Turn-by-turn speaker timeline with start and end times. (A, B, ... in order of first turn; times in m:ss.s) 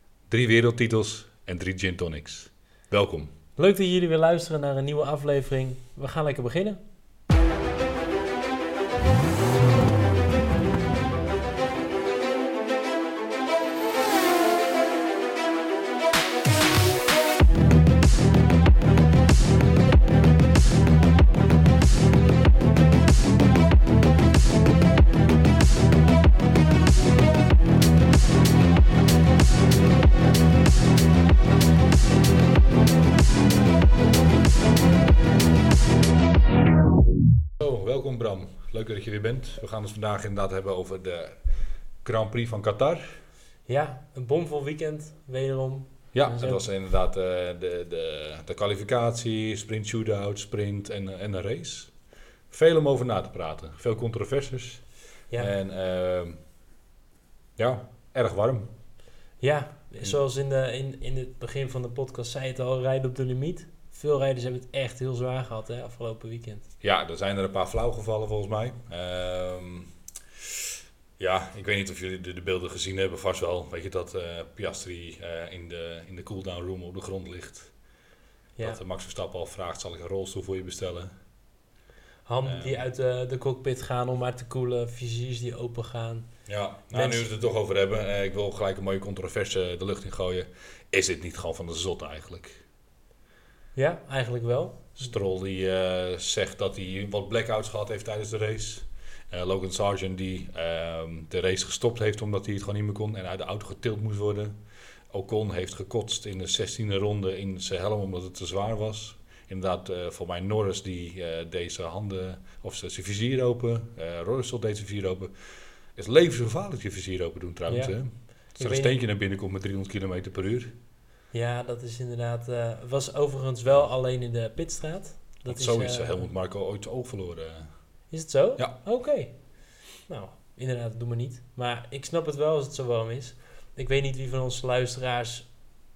0:00.3-0:03.3 A
0:03.6-0:06.8 B
0:37.6-0:41.4 A
0:42.0-0:43.2 A
0:43.7-0:46.7 B
0:46.1-0:51.9 A
0:52.5-0:56.4 A
0:57.6-0:58.7 A
0:59.4-1:06.7 B
1:06.8-1:09.9 A
1:11.2-1:17.7 A
1:18.6-1:21.1 A
1:22.3-1:27.3 B
1:22.4-1:22.8 A
1:26.5-1:32.6 A
1:33.8-1:35.0 B
1:35.0-1:44.6 A
1:45.1-2:00.7 A
1:57.7-1:59.0 B
2:01.3-2:06.3 B
2:05.4-2:07.9 A
2:08.1-2:15.6 B